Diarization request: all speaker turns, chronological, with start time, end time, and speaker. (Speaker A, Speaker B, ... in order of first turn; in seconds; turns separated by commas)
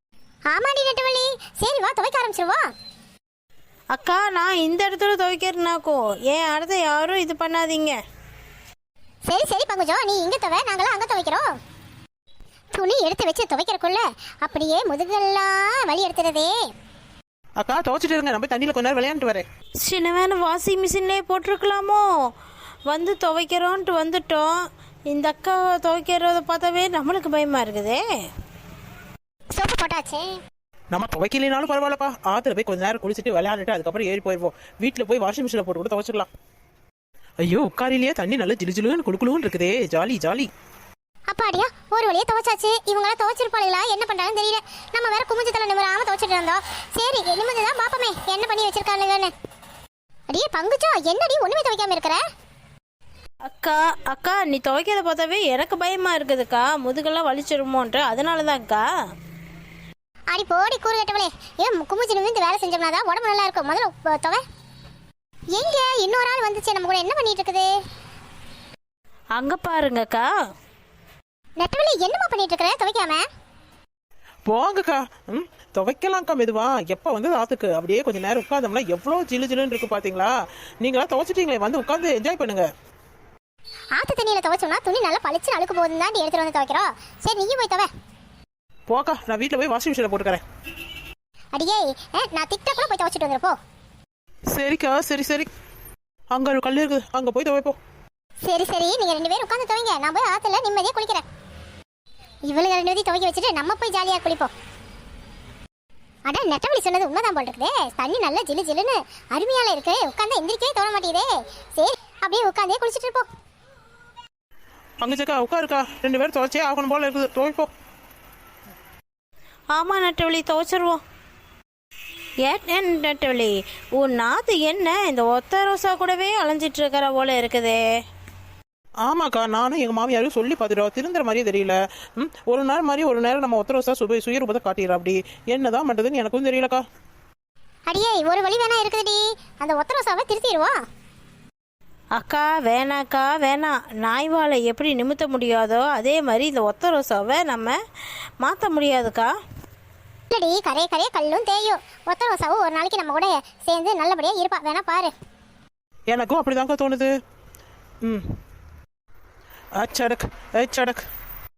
Speaker A: 0.5-2.6, Speaker B: 3.9-8.0, Speaker A: 9.3-11.5, Speaker A: 12.7-16.5, Speaker C: 17.6-19.4, Speaker B: 19.8-22.1, Speaker B: 22.9-24.5, Speaker B: 25.1-28.0, Speaker A: 29.6-30.3, Speaker C: 30.9-36.3, Speaker C: 37.4-40.5, Speaker A: 41.3-49.3, Speaker A: 50.3-52.2, Speaker B: 53.6-58.8, Speaker A: 60.3-64.4, Speaker A: 65.5-67.7, Speaker B: 69.3-70.3, Speaker A: 71.6-73.2, Speaker C: 74.5-82.7, Speaker A: 84.0-87.9, Speaker C: 88.9-90.4, Speaker A: 91.6-93.6, Speaker C: 94.5-95.5, Speaker C: 96.3-97.8, Speaker A: 98.4-101.2, Speaker A: 102.5-104.5, Speaker A: 106.3-113.2, Speaker C: 115.0-117.7, Speaker B: 119.7-121.0, Speaker B: 122.4-127.8, Speaker C: 129.0-136.8, Speaker A: 137.9-140.8, Speaker B: 142.2-147.8, Speaker B: 148.4-149.3, Speaker A: 150.3-155.1, Speaker C: 156.1-157.1, Speaker C: 159.8-161.0